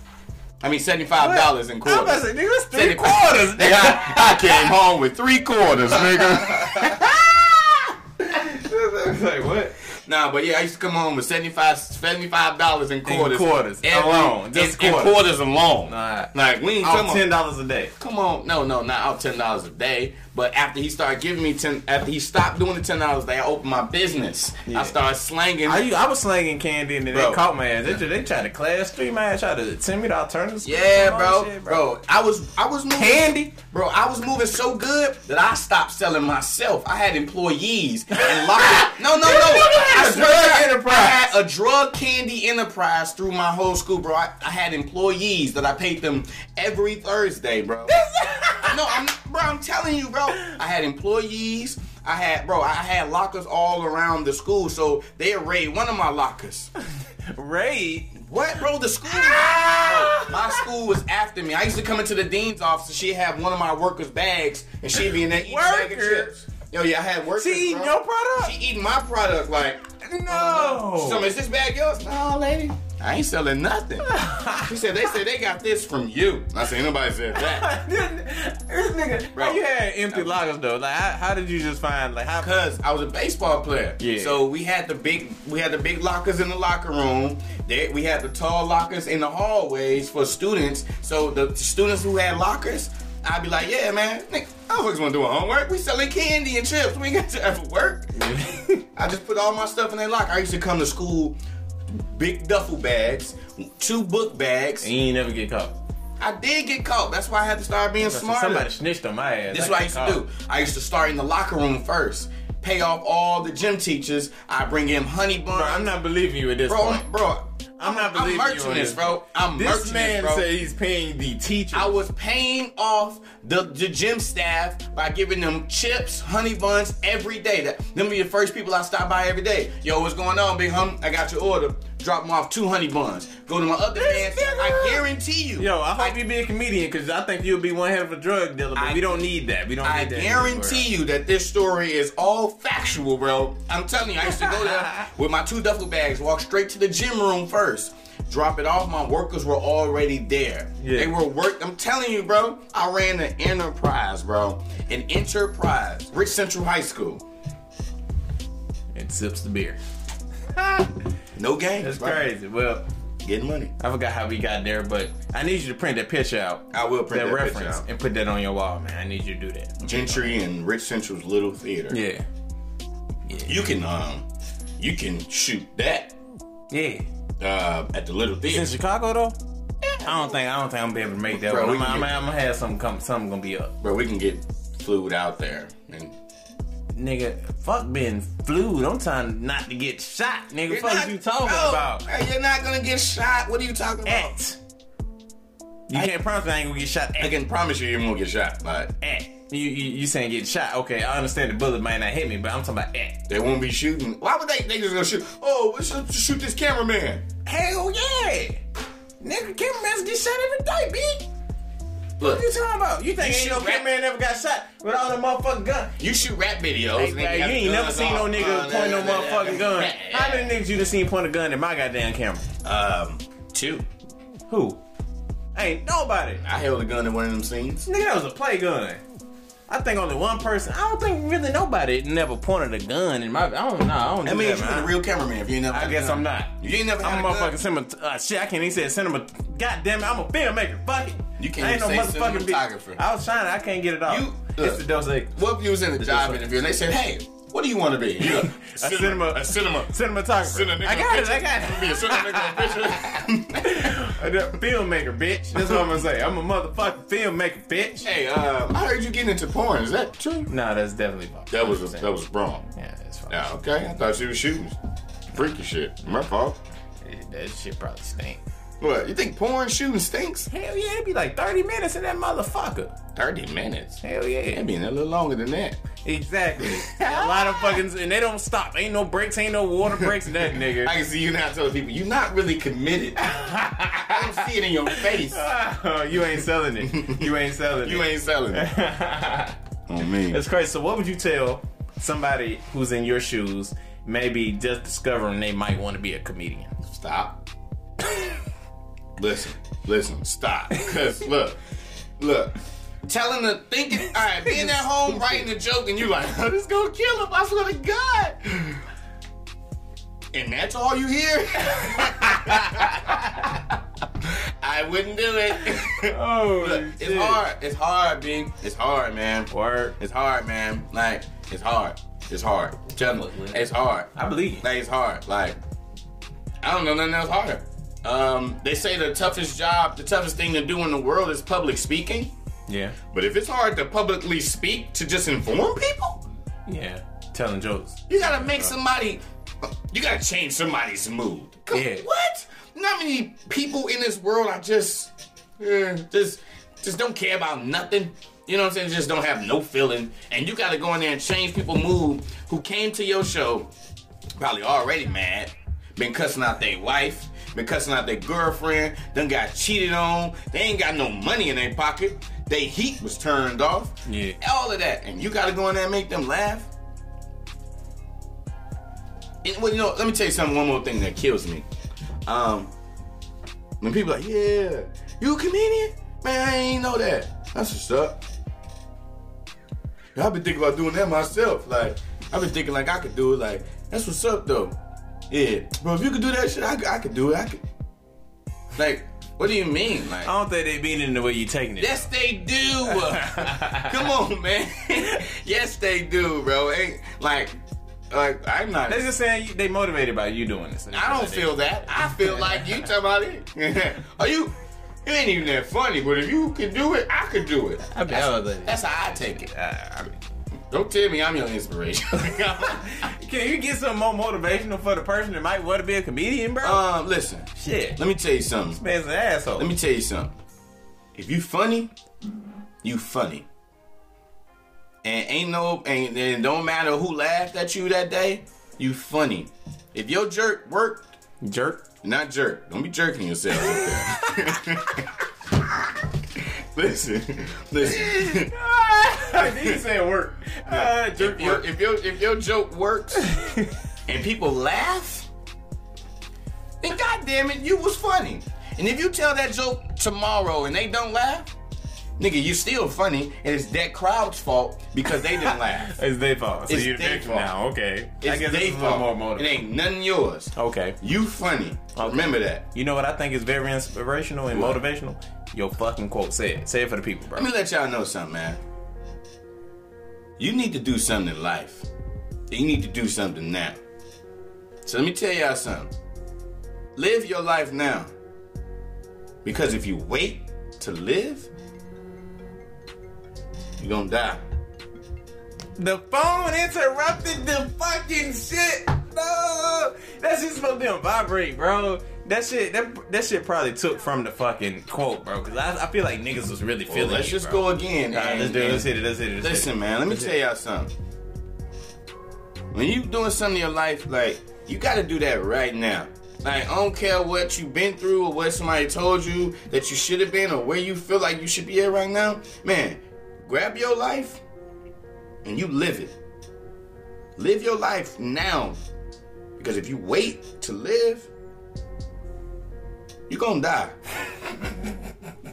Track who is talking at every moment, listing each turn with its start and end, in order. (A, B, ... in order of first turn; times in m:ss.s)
0:00.6-0:07.9 A
0:01.2-0:04.7 B
0:05.9-0:07.3 B
0:08.2-0:09.7 B
0:09.9-0:17.3 A
0:13.0-0:15.2 B
0:15.9-0:17.9 B
0:18.0-0:25.9 A
0:24.7-0:24.9 B
0:25.6-0:31.8 B
0:27.1-0:28.0 A
0:30.6-0:48.0 A
0:32.9-0:33.5 B
0:38.1-0:41.3 B
0:47.9-0:49.0 B
0:48.6-0:56.7 A
0:57.3-0:58.2 B
0:58.1-1:17.7 A
0:59.0-1:00.6 B
1:05.0-1:06.3 B
1:07.4-1:08.5 B
1:10.0-1:11.3 B
1:14.0-1:14.7 B
1:17.3-1:22.6 B
1:19.3-1:20.4 A
1:22.4-1:38.1 A
1:24.0-1:24.4 B
1:38.1-1:38.8 B
1:38.9-1:41.4 A
1:42.1-1:44.9 A
1:44.8-1:45.8 B
1:46.2-1:48.7 A
1:48.0-1:50.2 B
1:49.5-1:55.9 A
1:55.5-1:57.0 B
1:56.7-2:00.4 A
1:57.8-2:02.0 B
2:01.7-2:16.2 A
2:14.0-2:15.0 B
2:15.6-2:20.9 B
2:18.8-2:19.3 A
2:19.8-2:37.2 A
2:24.4-2:24.9 B
2:30.8-2:31.1 B
2:38.9-2:39.8 B
2:40.6-2:40.8 B
2:41.3-2:42.3 A
2:41.8-2:42.8 B
2:43.2-2:43.7 A
2:43.8-2:50.4 B
2:46.7-2:47.8 A
2:49.8-2:52.0 A
2:51.9-2:52.2 B
2:53.3-2:53.6 B
2:53.4-2:54.3 A
2:54.8-2:56.1 A
2:56.7-2:57.0 B
2:57.4-2:58.7 A
2:58.4-2:59.4 B
2:59.8-3:00.3 A
3:00.0-3:03.7 B
3:01.3-3:02.1 A
3:03.8-3:06.1 A
3:06.9-3:12.0 B
3:10.7-3:14.4 A
3:14.0-3:14.6 B
3:15.9-3:17.3 B
3:17.2-3:19.3 A
3:19.5-3:23.2 B
3:23.3-3:27.2 A
3:27.4-3:28.6 B
3:29.2-3:31.3 B
3:32.2-3:32.4 A
3:32.2-3:36.0 B
3:33.2-3:33.9 A
3:36.0-3:40.6 A
3:37.0-3:42.4 B
3:42.6-3:43.8 A
3:44.5-3:44.8 B
3:45.5-3:46.4 B
3:46.4-3:47.8 A
3:47.8-3:49.0 B
3:49.7-3:54.9 B
3:54.2-3:57.6 A
3:55.7-4:05.4 B
4:01.4-4:03.0 A
4:04.0-4:14.2 A
4:06.0-4:06.4 B
4:08.2-4:18.1 B
4:15.5-4:16.0 A
4:18.0-4:20.5 A
4:20.5-4:22.1 B
4:21.5-4:22.6 A
4:22.7-4:23.5 B
4:23.3-4:24.8 A
4:25.3-4:26.6 A
4:27.0-4:28.4 B
4:28.8-4:30.5 A
4:30.5-4:33.0 B
4:33.1-4:35.8 A
4:34.0-4:34.6 B
4:36.0-4:41.0 B
4:36.6-4:37.8 A
4:39.9-4:43.5 A
4:43.2-4:49.6 B
4:44.0-4:45.5 A
4:46.3-4:48.7 A
4:49.9-4:50.4 A
4:50.3-4:56.8 B
4:56.8-4:57.4 A
4:59.2-5:01.6 A
5:02.2-5:08.8 A
5:04.4-5:05.1 B
5:10.3-5:25.6 A
5:11.6-5:13.2 B
5:15.7-5:17.4 B
5:19.5-5:20.0 B
5:23.0-5:24.6 B
5:26.6-5:32.3 A
5:32.7-5:33.0 B
5:33.1-5:36.2 A
5:36.7-5:38.7 B
5:38.1-5:53.7 A
5:41.7-5:42.0 B
5:54.4-6:06.7 A
6:04.0-6:04.4 B
6:09.4-6:11.6 A
6:12.2-6:12.7 A
6:13.8-6:18.2 A
6:20.1-6:24.7 A
6:25.3-6:27.6 A
6:28.7-6:30.3 A
6:30.2-6:32.1 B
6:31.8-6:37.5 A
6:32.8-6:34.1 B
6:38.1-6:39.1 A
6:38.9-6:42.8 B
6:40.9-6:44.5 A
6:45.0-6:49.5 A
6:47.9-6:50.2 B
6:50.7-6:53.1 A
6:52.3-6:56.8 B
6:56.6-6:58.8 A
6:57.6-6:58.0 B
6:58.7-6:59.7 B
6:59.6-7:00.3 A
7:01.1-7:01.9 A
7:02.8-7:03.4 A
7:05.0-7:11.0 A
7:11.4-7:11.8 B
7:12.0-7:18.6 A
7:13.6-7:15.1 B
7:17.8-7:21.6 B
7:19.2-7:19.8 A
7:20.7-7:23.4 A
7:23.2-7:23.7 B
7:24.1-7:25.3 A
7:26.8-7:31.5 A
7:32.2-7:36.0 A
7:35.1-7:39.6 B
7:36.7-7:37.5 A
7:38.2-7:42.6 A
7:40.6-7:41.0 B
7:42.0-7:47.5 B
7:44.5-7:44.8 A
7:47.4-7:48.6 A
7:50.4-7:51.9 A
7:52.5-7:53.8 A
7:54.8-7:55.9 A
7:57.0-7:58.1 A
7:59.4-8:01.5 A
8:03.8-8:04.4 A
8:05.8-8:20.3 B
8:16.9-8:20.9 A
8:22.7-8:34.4 A
8:35.4-8:36.1 A
8:37.4-8:38.8 A
8:39.6-8:41.3 A
8:43.3-8:44.0 A